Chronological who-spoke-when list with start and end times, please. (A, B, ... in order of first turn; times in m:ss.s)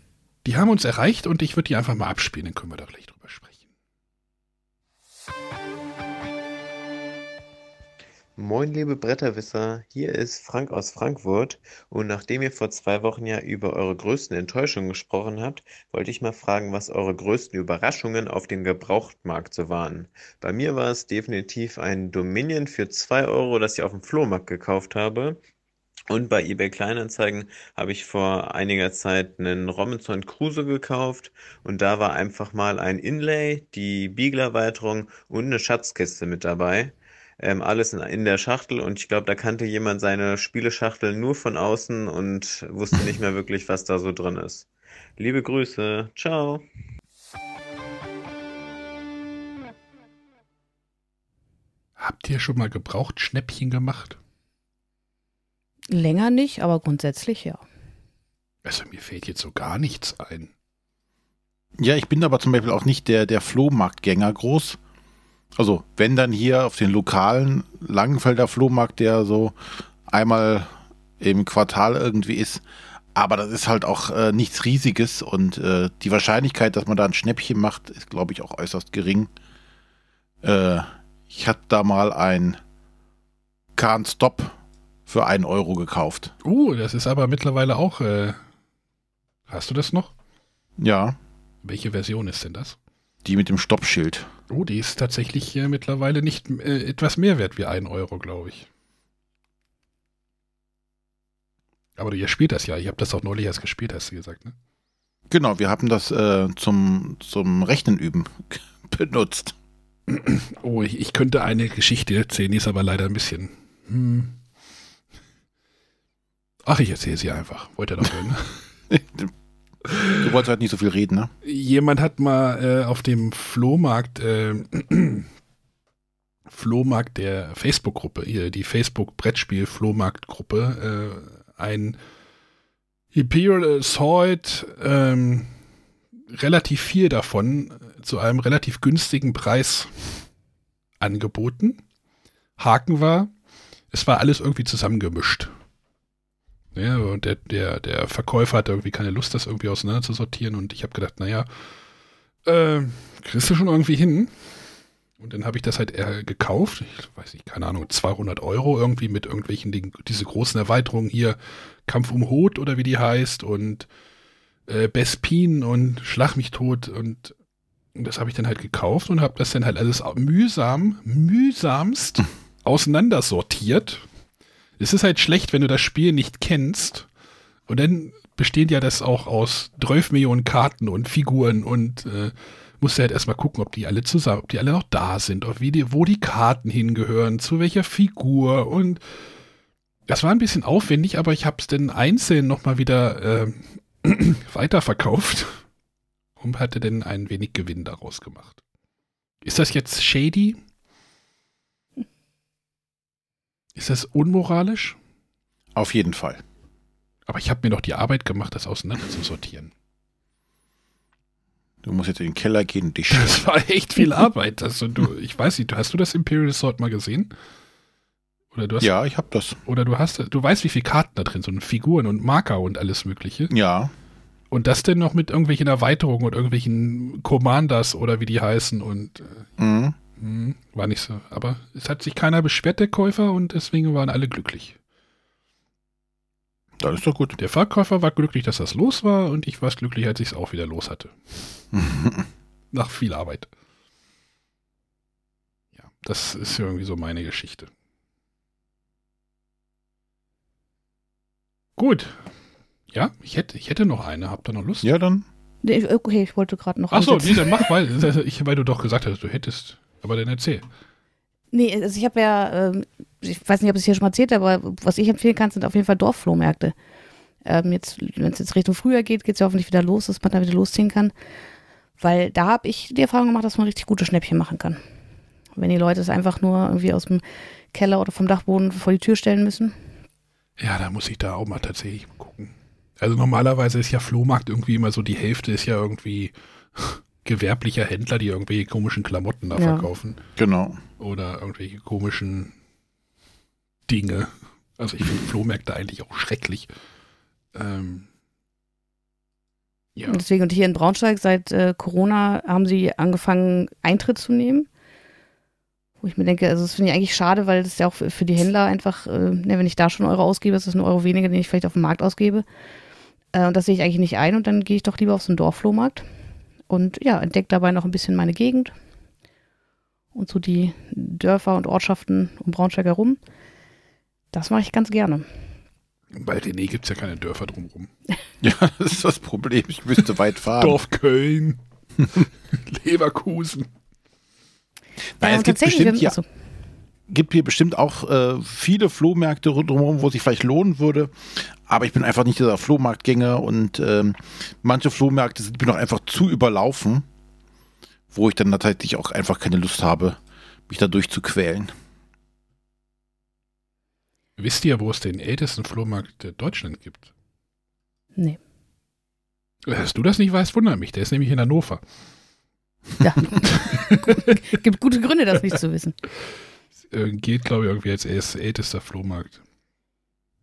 0:00.4-0:03.6 A
0:08.4-0:25.4 B
0:26.1-0:46.6 B
0:52.0-0:54.2 A
0:55.9-0:57.6 C
0:58.6-1:00.5 A
1:01.8-1:04.8 D
1:05.6-1:12.6 D
1:13.1-1:19.3 D
1:20.4-1:22.6 D
1:23.8-1:24.6 D
1:25.1-1:26.3 D
1:26.4-1:28.4 A
1:29.5-1:30.1 A
1:30.8-1:31.2 D
1:31.6-1:32.8 A
1:33.2-1:34.3 D
1:34.5-1:38.7 A
1:42.0-1:44.5 A
1:45.3-1:49.5 D
1:50.1-1:54.4 A
1:56.6-1:58.6 A
1:58.9-1:59.3 D
1:59.9-2:00.2 A
2:00.2-2:01.3 D
2:01.4-2:05.3 A
2:06.5-2:12.0 A
2:13.1-2:15.5 A
2:16.3-2:20.2 A
2:21.0-2:21.8 A
2:22.6-2:23.3 A
2:23.9-2:25.5 A
2:26.7-2:31.5 A
2:32.4-2:34.3 A
2:35.2-2:43.9 A
2:44.7-2:47.3 A
2:47.9-2:54.0 A
2:54.8-2:57.1 A
2:57.7-3:09.0 A
3:10.1-3:15.6 A
3:16.4-3:18.6 A
3:19.4-3:20.6 A
3:23.7-3:25.0 A
3:25.7-3:26.4 D
3:27.2-3:29.7 A
3:31.8-3:33.4 D
3:33.1-3:37.3 A
3:38.5-3:38.9 A
3:38.8-3:39.6 D
3:39.6-3:43.5 A
3:43.5-3:43.9 D
3:44.5-3:49.4 A
3:49.6-3:50.0 D
3:50.2-3:54.8 A
3:56.8-3:57.4 D
3:57.4-4:01.2 A
4:01.7-4:02.2 D
4:02.7-4:03.5 A
4:05.8-4:07.7 A
4:11.8-4:12.3 A
4:12.9-4:14.9 A
4:14.8-4:15.2 D
4:15.6-4:17.6 C
4:16.9-4:20.6 A
4:21.5-4:26.7 C
4:27.4-4:31.1 C
4:32.0-4:34.8 C
4:35.6-4:37.2 C
4:37.7-4:39.7 C
4:40.6-4:50.2 A
4:49.6-4:49.9 C
4:50.4-4:50.8 D
4:51.0-4:52.5 A
4:53.9-4:56.7 A
4:57.5-4:58.1 A
5:00.1-5:04.7 C
5:06.0-5:12.4 C
5:13.3-5:16.0 C
5:16.7-5:18.7 C
5:20.1-5:23.2 C
5:24.3-5:25.3 C
5:26.1-5:27.9 A
5:28.4-5:30.8 D
5:30.6-5:31.6 A
5:32.5-5:33.7 A
5:35.2-5:36.2 D
5:35.2-5:36.3 C
5:37.1-5:47.0 D
5:48.1-5:51.7 D
5:54.4-5:57.1 A
5:59.6-6:01.8 A
6:03.0-6:06.0 C
6:03.4-6:04.4 A
6:06.9-6:09.4 A